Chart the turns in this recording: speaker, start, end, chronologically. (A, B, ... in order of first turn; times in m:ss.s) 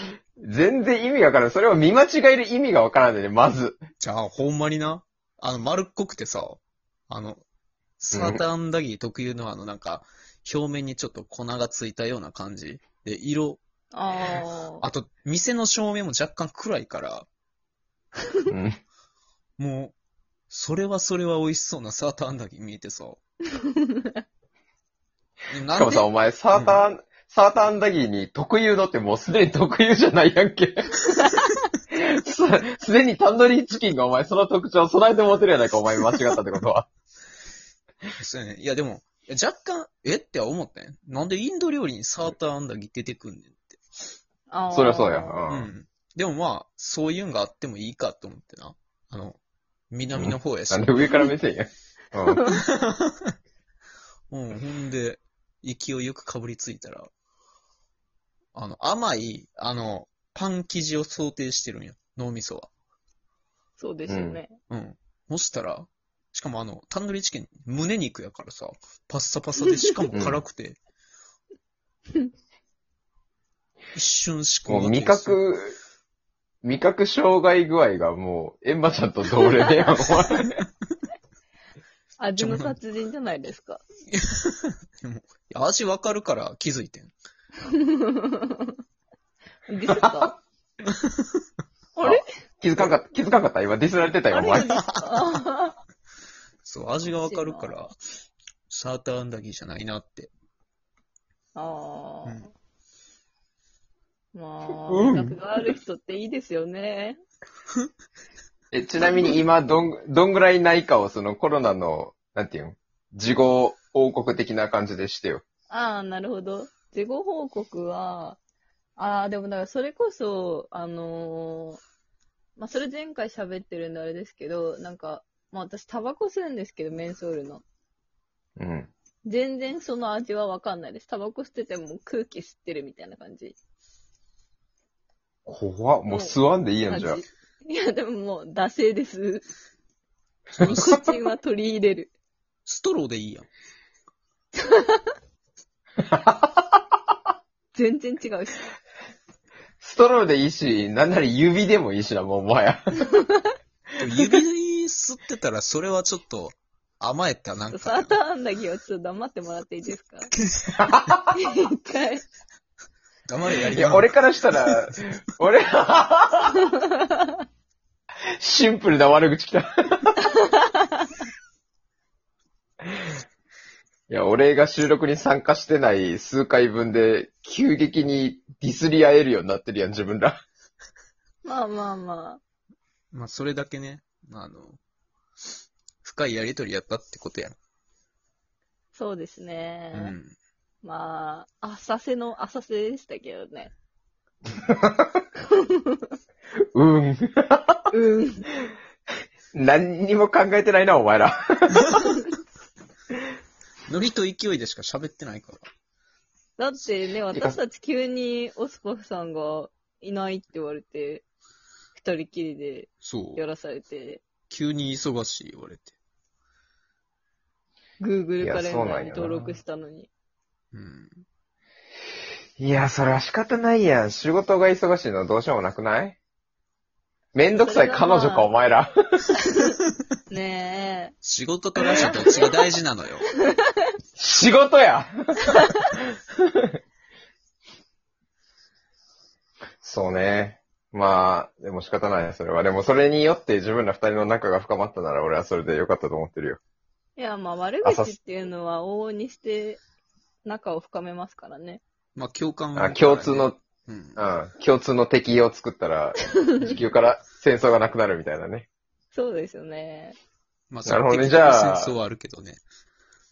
0:00.4-0:03.8 A
0:04.0-0:07.4 B
0:08.0-0:13.6 B
0:08.1-0:08.4 A
0:13.9-0:14.8 C
0:14.2-0:17.3 B
0:18.5-0:18.8 A
0:19.6-0:19.9 B
0:20.5-0:23.2 B
0:23.5-0:24.2 C
0:25.5-0:26.8 B
0:25.7-0:31.0 A
0:31.9-0:36.9 A
0:38.2-0:43.8 B
0:44.5-0:45.4 C
0:44.7-0:45.7 A
0:45.5-0:49.4 B
0:49.9-0:51.1 B
0:50.1-0:52.4 A
0:52.5-0:53.3 B
0:54.3-0:57.1 B
0:58.5-1:02.7 B
1:03.8-1:04.6 C
1:04.1-1:04.4 A
1:04.7-1:10.8 B
1:10.1-1:10.4 A
1:13.9-1:15.4 B
1:14.7-1:15.8 A
1:16.6-1:20.6 A
1:19.4-1:19.8 C
1:22.2-1:23.8 C
1:22.4-1:22.7 B
1:24.1-1:27.1 B
1:27.6-1:28.8 C
1:29.7-1:30.4 C
1:29.9-1:30.3 A
1:30.9-1:31.2 B
1:32.0-1:32.2 C
1:32.1-1:34.7 A
1:34.3-1:35.8 C
1:34.7-1:35.4 B
1:36.6-1:37.9 B
1:37.1-1:37.8 C
1:38.7-1:40.3 B
1:41.5-1:42.5 C
1:44.3-1:47.2 C
1:44.9-1:45.4 A
1:48.7-1:55.4 A
1:55.7-1:58.4 C
1:59.0-2:01.8 C
2:02.6-2:07.6 C
2:08.6-2:08.9 A
2:09.2-2:13.6 C
2:15.4-2:17.2 A
2:16.1-2:19.5 C
2:20.6-2:21.0 B
2:20.6-2:21.1 A
2:20.6-2:22.1 C
2:22.6-2:23.5 B
2:24.6-2:25.1 C
2:26.1-2:26.8 A
2:27.7-2:28.6 C
2:29.8-2:33.1 A
2:34.0-2:38.2 B
2:37.7-2:40.3 C
2:40.3-2:41.2 B
2:40.7-2:41.3 A
2:41.3-2:42.2 C
2:43.3-2:44.8 B
2:43.7-2:46.6 A
2:48.4-2:50.2 A
2:50.4-2:51.1 C
2:54.1-3:00.4 A
3:01.4-3:02.4 C
3:03.1-3:04.8 B
3:06.0-3:07.6 B
3:08.9-3:10.1 C
3:09.9-3:10.4 B
3:10.8-3:13.7 C
3:14.7-3:15.1 A
3:15.5-3:16.0 C
3:16.7-3:17.8 A
3:17.9-3:18.5 C
3:19.5-3:22.2 A
3:23.9-3:25.7 B
3:26.6-3:31.2 C
3:27.3-3:27.6 A
3:31.9-3:34.2 C
3:33.0-3:33.4 B
3:34.5-3:35.9 B
3:38.0-3:40.1 C
3:38.4-3:39.4 A
3:39.3-3:39.6 B
3:40.7-3:41.2 B
3:42.6-3:46.2 A
3:47.3-3:49.3 A
3:47.5-3:48.5 C
3:50.3-3:51.1 C
3:51.2-3:53.2 B
3:51.9-3:52.5 C
3:54.2-3:55.9 A
3:59.8-4:06.6 A
4:07.2-4:09.8 C
4:07.8-4:08.2 A
4:10.4-4:11.8 C
4:12.2-4:14.2 B
4:12.7-4:13.6 A
4:14.2-4:18.7 A
4:19.1-4:20.2 C
4:20.7-4:22.6 B
4:20.8-4:22.0 A